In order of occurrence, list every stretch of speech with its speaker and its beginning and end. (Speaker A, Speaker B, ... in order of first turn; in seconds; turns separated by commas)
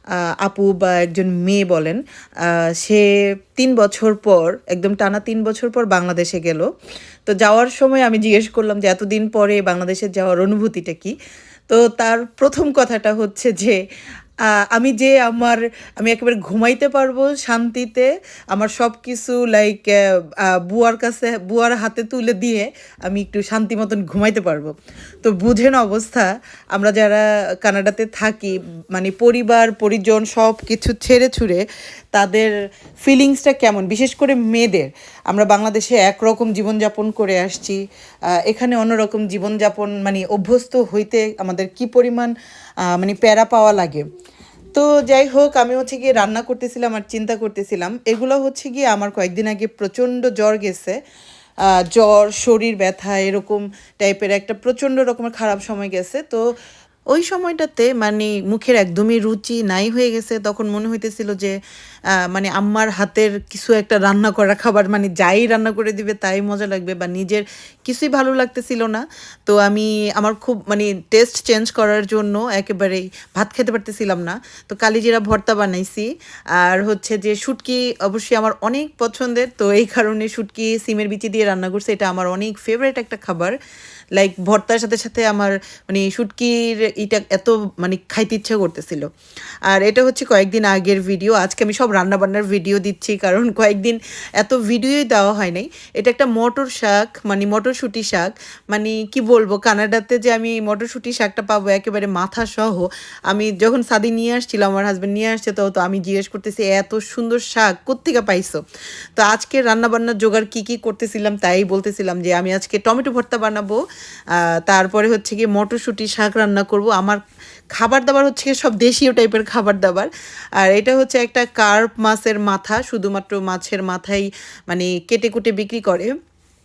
Speaker A: 0.4-3.0, Speaker A: 3.5-6.7, Speaker A: 7.2-11.2, Speaker A: 11.7-13.8, Speaker A: 14.7-32.5, Speaker A: 33.0-37.8, Speaker A: 38.3-42.3, Speaker A: 42.9-44.0, Speaker A: 44.7-51.0, Speaker A: 51.7-56.4, Speaker A: 57.1-61.6, Speaker A: 62.2-83.5, Speaker A: 84.2-89.1, Speaker A: 89.7-108.6, Speaker A: 109.2-113.8, Speaker A: 114.3-117.2, Speaker A: 117.8-126.1